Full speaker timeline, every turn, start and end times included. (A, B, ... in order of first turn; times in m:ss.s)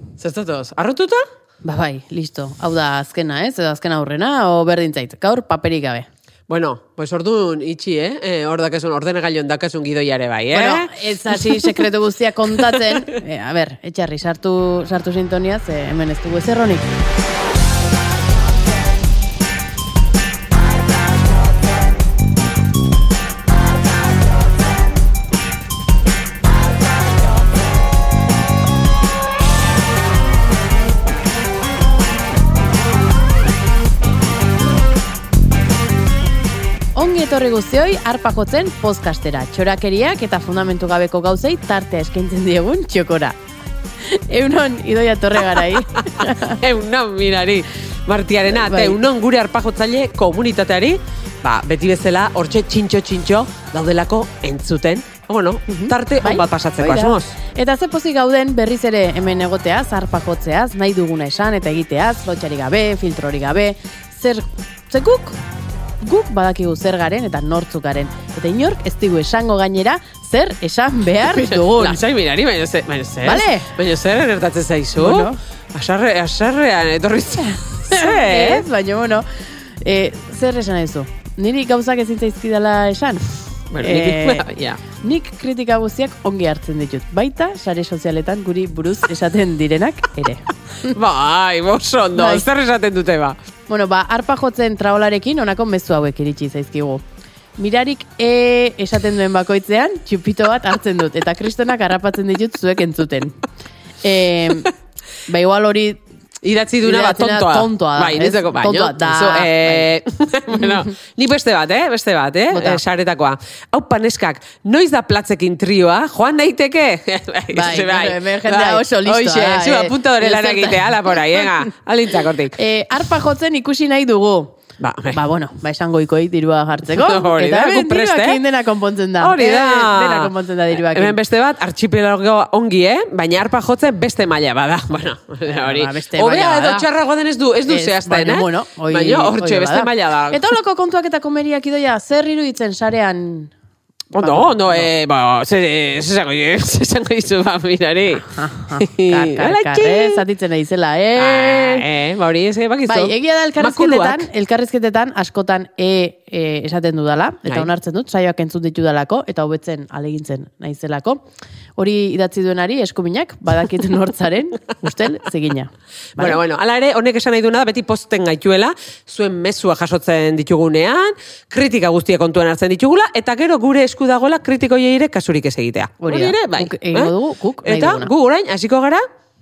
0:00.2-0:01.2 A
0:01.6-0:06.1 B
0:06.5-0:11.8 A
0:10.5-0:16.8 B
0:12.5-0:13.1 A
0:36.9-0:43.4 B
0:44.0-0:46.6 B
0:46.2-0:57.3 A
0:48.5-0:49.0 B
0:55.7-1:05.4 B
1:06.0-1:12.0 B
1:11.3-1:18.6 A
1:13.2-1:13.7 B
1:15.0-1:15.4 B
1:17.9-1:19.2 B
1:19.8-1:23.3 B
1:23.7-1:24.8 A
1:23.8-1:24.5 B
1:25.0-1:31.0 B
1:30.9-1:33.4 A
1:32.1-1:32.5 B
1:33.7-1:37.0 B
1:37.6-1:43.4 B
1:44.0-1:44.7 B
1:45.3-1:46.0 B
1:46.4-2:02.6 A
1:46.8-1:49.9 B
1:50.6-1:50.9 B
1:52.5-1:52.8 B
1:57.5-2:01.6 B
2:02.5-2:04.6 B
2:04.8-2:05.2 A
2:05.1-2:11.2 B
2:06.9-2:08.4 A
2:09.2-2:20.4 A
2:15.4-2:16.8 B
2:17.7-2:23.5 B
2:24.1-2:30.2 A
2:24.2-2:24.9 B
2:28.3-2:31.8 B
2:31.2-2:34.3 A
2:32.9-2:41.2 B
2:41.8-2:46.4 B
2:46.2-2:59.0 A
2:56.0-2:58.1 B